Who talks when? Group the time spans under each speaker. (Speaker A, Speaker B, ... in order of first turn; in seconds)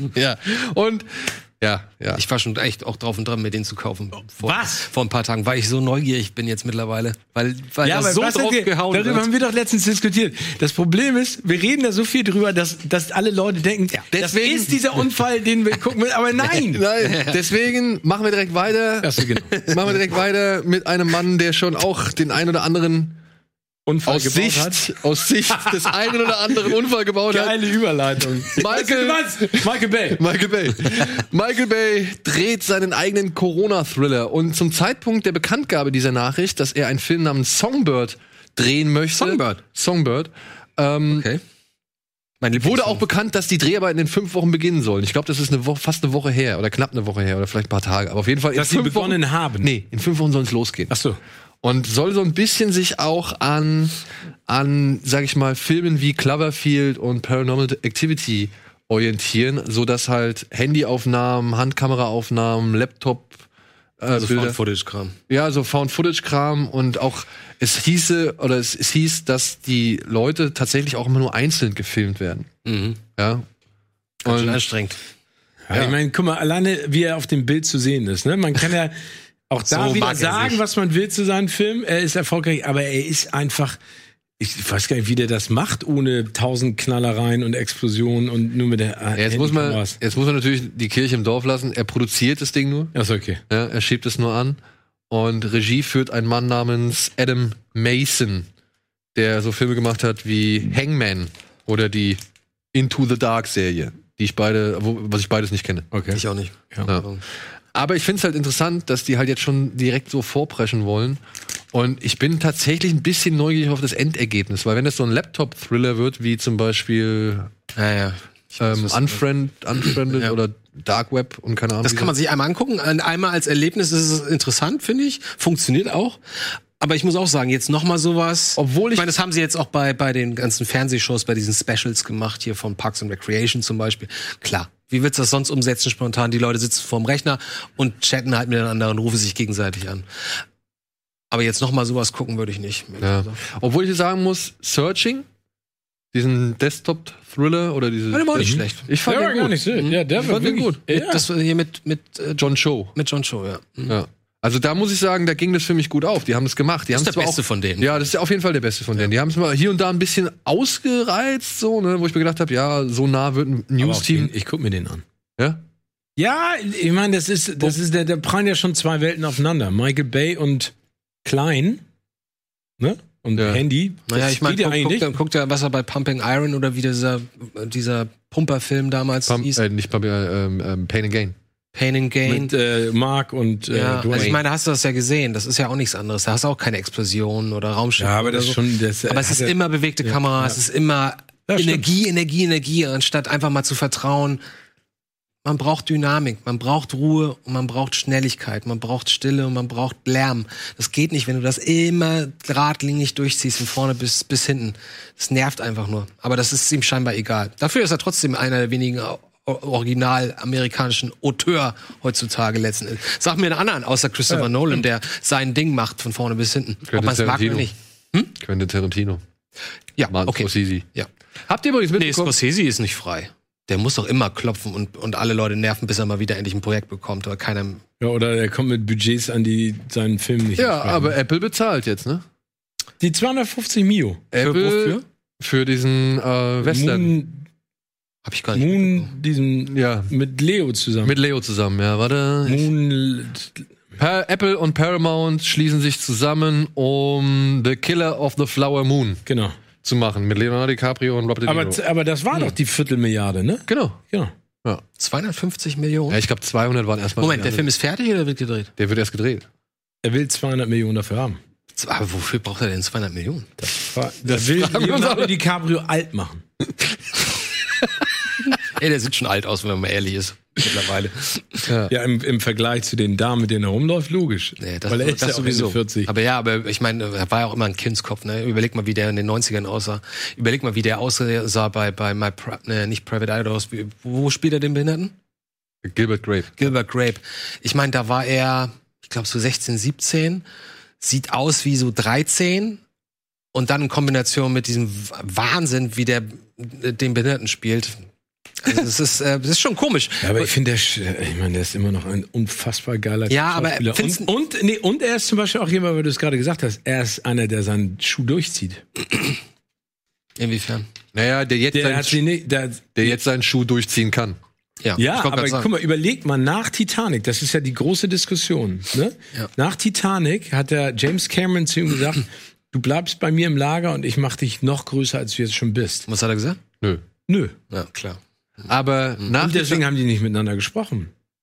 Speaker A: 0.1-2.2, 14.1-14.7, 16.6-23.2, 24.1-27.6, 28.5-41.3, 42.6-50.9, 51.6-63.4, 64.0-64.6, 65.3-72.5, 73.2-73.5, 74.2-74.7, 89.2-92.9, 93.5-94.6, 95.1-98.5, 99.2-102.2, 102.7-105.9, 107.7-111.2, 111.7-117.5, 118.6-122.1, 128.6-129.1, 143.0-145.3, 146.1-149.6, 150.2-150.8, 152.4-152.9, 153.9-164.3, 173.4-173.6, 179.3-181.4, 184.1-184.4, 216.9-217.7, 218.4-219.2, 220.1-220.8, 221.5-222.3, 230.6-232.2, 234.3-237.1, 239.7-240.1, 241.0-242.7, 244.0-249.2, 249.8-251.8, 253.7-254.0, 256.1-257.6, 258.8-259.4, 264.2-265.4, 271.7-271.9, 285.9-286.7, 311.1-312.2, 312.9-314.4, 328.7-329.8
Speaker B: 2.2-9.3, 17.0-17.4, 39.2-39.6, 41.1-41.4, 42.4-43.0, 64.2-65.2, 72.7-73.0, 74.2-75.0, 79.7-80.6, 106.1-107.2, 117.8-119.2, 119.8-120.3, 121.8-140.1, 141.3-143.4, 148.1-148.9, 150.9-153.9, 156.9-158.1, 174.1-179.6, 181.7-182.5, 183.7-194.4, 195.4-218.3, 220.0-221.1, 222.0-227.8, 234.4-235.0, 238.2-239.1, 255.0-256.2, 257.2-258.7, 261.8-263.5, 268.7-271.7, 274.6-285.1, 286.6-290.4, 291.0-292.8, 293.5-298.0, 298.6-300.5, 303.3-304.3, 310.4-310.9, 314.8-315.7, 326.1-326.6, 327.7-328.7
Speaker C: 4.4-4.9, 7.8-16.9, 19.0-19.6, 23.9-24.9, 27.3-30.2, 48.5-49.7, 50.9-51.2, 75.7-79.0, 79.5-83.8, 84.4-90.0, 92.9-93.4, 105.9-106.2, 148.4-151.2, 163.8-165.0, 166.2-170.7, 171.2-171.8, 172.8-175.1, 182.3-184.4, 188.0-190.6, 191.5-191.9, 228.0-231.2, 233.0-234.2, 236.6-237.4, 238.6-241.2, 242.5-243.6, 249.3-249.6, 251.4-254.3, 260.0-261.4, 263.6-266.4, 271.9-276.1, 300.2-308.8, 311.7-313.2, 315.0-326.1, 327.3-327.6, 329.3-331.1